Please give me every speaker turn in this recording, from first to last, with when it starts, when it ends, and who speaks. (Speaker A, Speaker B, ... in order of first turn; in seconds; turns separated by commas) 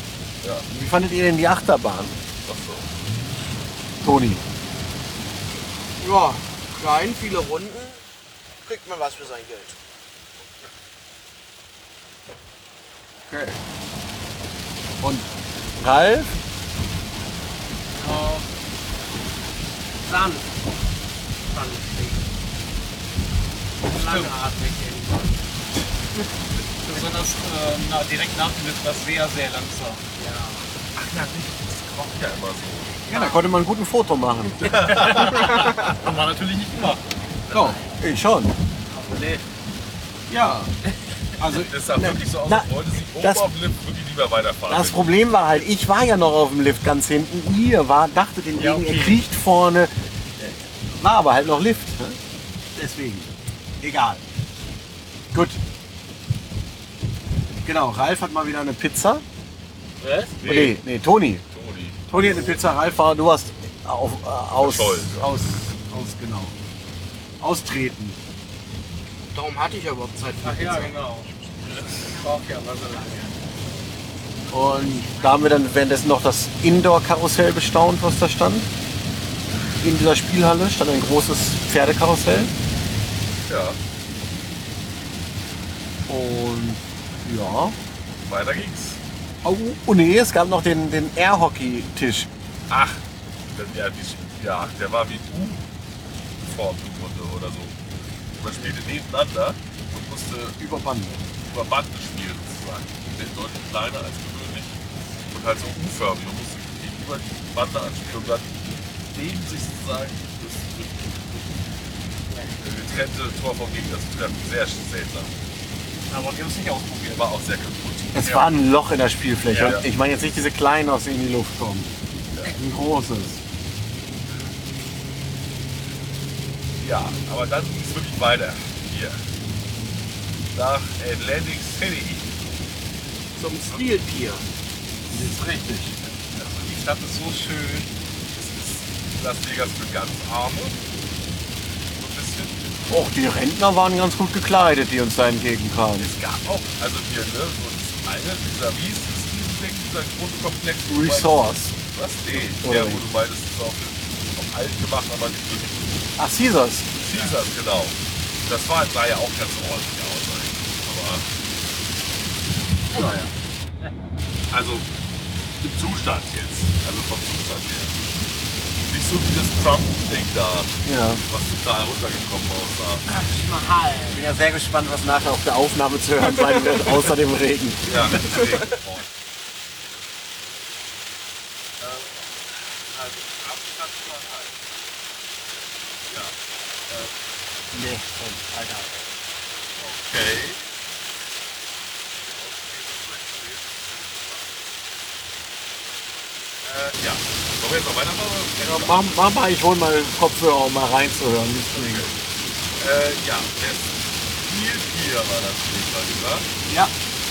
Speaker A: 0.4-0.7, Speaker B: 0.7-2.2, Speaker A: 2.4-2.9, Speaker B: 4.0-4.4, Speaker C: 6.0-8.0, Speaker C: 8.6-9.8, Speaker B: 13.3-13.6, Speaker B: 15.0-15.3, Speaker B: 15.8-16.4, Speaker D: 17.9-18.5, Speaker D: 20.0-20.5, Speaker D: 21.5-22.2, Speaker D: 23.8-25.5, Speaker A: 23.9-24.3, Speaker E: 26.9-30.0, Speaker D: 30.1-30.7, Speaker A: 30.9-32.9, Speaker D: 33.1-33.4, Speaker B: 33.1-35.1, Speaker A: 34.6-35.7, Speaker E: 34.8-37.0, Speaker B: 37.5-38.6, Speaker D: 38.9-39.5, Speaker B: 40.3-40.7, Speaker B: 41.4-43.4, Speaker A: 41.5-45.1, Speaker B: 44.7-52.2, Speaker E: 48.6-49.2, Speaker B: 52.7-54.2, Speaker B: 55.3-55.6, Speaker B: 57.6-59.2, Speaker D: 60.0-60.3, Speaker A: 60.4-60.8, Speaker B: 60.4-61.4, Speaker A: 61.5-62.6, Speaker B: 62.1-66.6, Speaker A: 64.6-65.3, Speaker B: 67.4-68.2, Speaker C: 69.3-70.9, Speaker D: 70.4-71.3, Speaker A: 71.6-72.1, Speaker D: 72.0-73.3, Speaker B: 74.5-78.7, Speaker B: 79.8-82.5, Speaker A: 83.4-83.8, Speaker B: 86.1-87.8, Speaker A: 88.2-89.0, Speaker B: 89.4-92.3, Speaker A: 92.7-93.0, Speaker A: 93.5-95.6, Speaker A: 96.4-97.8, Speaker A: 98.4-100.6, Speaker B: 100.6-101.3, Speaker A: 101.4-104.7, Speaker A: 105.3-111.7, Speaker D: 112.3-112.5, Speaker A: 112.6-115.4, Speaker E: 116.1-117.3, Speaker A: 117.0-118.4, Speaker B: 118.2-121.9, Speaker A: 119.5-119.8, Speaker B: 122.5-123.4, Speaker A: 126.8-129.2, Speaker A: 130.5-132.3, Speaker C: 133.3-134.4, Speaker B: 135.1-136.0, Speaker E: 136.3-137.9, Speaker A: 138.3-140.8, Speaker A: 141.9-142.7, Speaker B: 142.9-146.1, Speaker A: 146.0-155.9, Speaker B: 150.9-151.7, Speaker B: 152.6-153.0, Speaker B: 156.2-156.9, Speaker A: 157.0-161.2, Speaker B: 162.9-163.3, Speaker A: 164.5-164.9, Speaker A: 165.6-168.0, Speaker A: 168.8-173.0, Speaker B: 170.8-171.2, Speaker D: 173.1-174.2, Speaker B: 174.1-178.5, Speaker A: 177.8-179.2, Speaker A: 179.8-180.7, Speaker A: 181.8-184.6, Speaker A: 186.1-186.4, Speaker A: 186.9-187.2, Speaker B: 187.7-189.0, Speaker A: 189.7-190.9, Speaker A: 192.1-194.6, Speaker A: 196.6-199.2, Speaker B: 198.6-202.1, Speaker A: 201.7-202.2, Speaker A: 202.8-206.5, Speaker B: 206.7-206.9